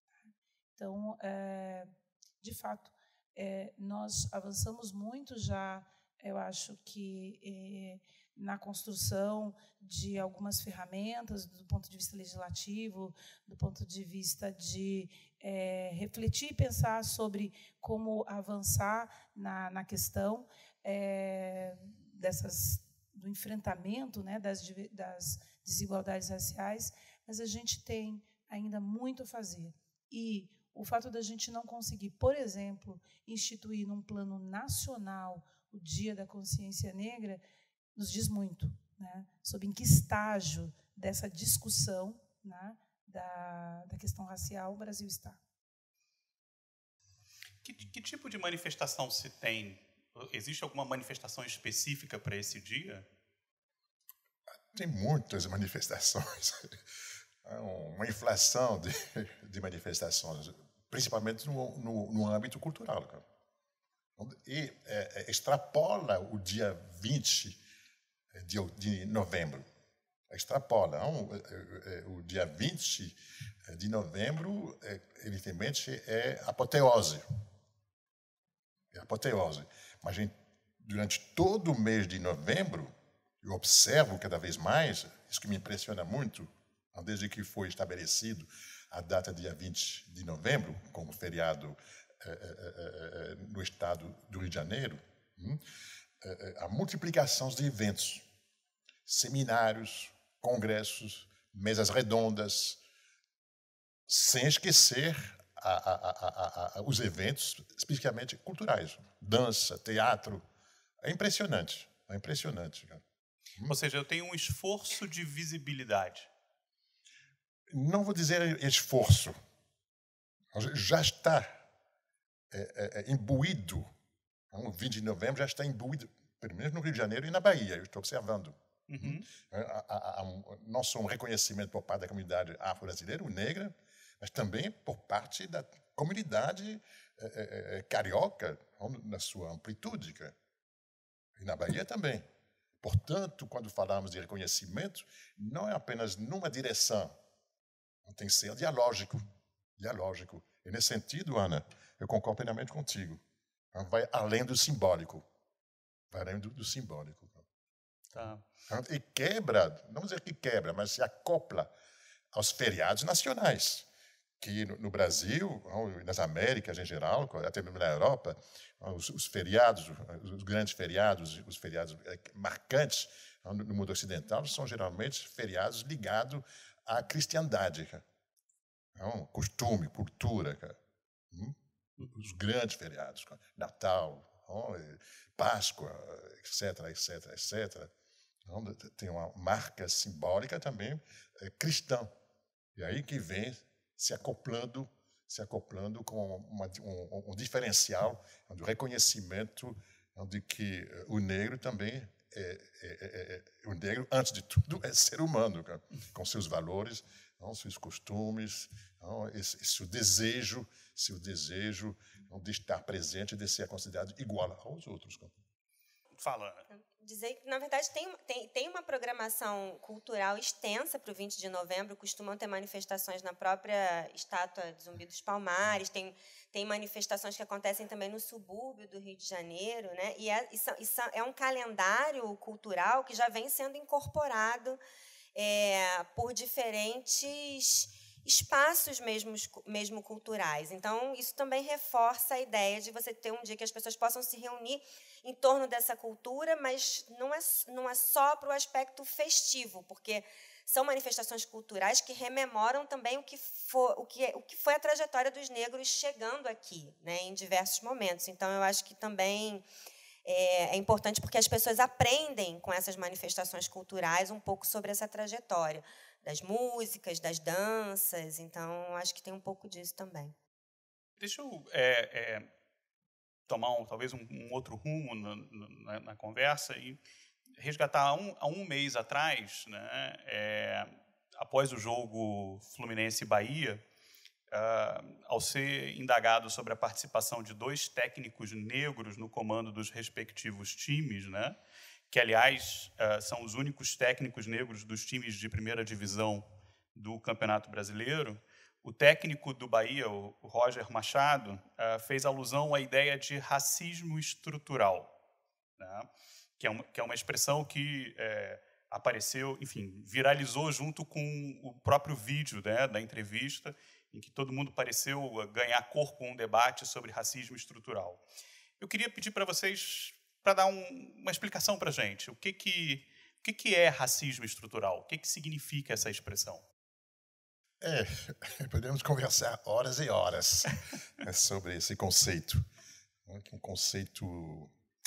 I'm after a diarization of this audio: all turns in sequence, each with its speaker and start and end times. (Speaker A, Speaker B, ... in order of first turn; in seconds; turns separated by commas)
Speaker A: 0.2-37.4, Speaker A: 38.0-45.4, Speaker B: 47.6-53.0, Speaker C: 54.7-56.8, Speaker C: 57.4-63.2, Speaker C: 64.2-67.6, Speaker C: 68.3-69.7, Speaker C: 70.3-77.2, Speaker C: 78.9-95.6, Speaker C: 96.2-98.2, Speaker C: 99.1-102.8, Speaker C: 104.1-110.4, Speaker C: 111.0-113.0, Speaker B: 113.7-116.3, Speaker C: 117.7-119.4, Speaker C: 120.5-121.6, Speaker C: 122.5-123.9, Speaker C: 124.5-140.3, Speaker B: 128.9-129.3, Speaker C: 141.3-142.3, Speaker C: 142.8-147.2, Speaker C: 148.1-149.2, Speaker C: 149.8-153.2, Speaker C: 153.7-155.2, Speaker C: 156.1-157.4, Speaker B: 158.2-158.4, Speaker C: 158.7-161.7, Speaker C: 162.3-163.9, Speaker C: 164.4-178.0, Speaker C: 178.9-180.8, Speaker C: 181.3-187.9, Speaker C: 188.4-192.1, Speaker C: 192.8-215.3, Speaker B: 216.2-216.7, Speaker D: 216.7-234.8, Speaker D: 235.3-259.6, Speaker D: 260.2-270.4, Speaker B: 271.2-272.5, Speaker B: 273.5-277.0, Speaker B: 277.6-283.8, Speaker B: 284.5-291.6, Speaker B: 292.1-305.1, Speaker B: 305.8-318.2, Speaker B: 318.8-326.6, Speaker C: 327.8-332.6, Speaker C: 333.3-334.7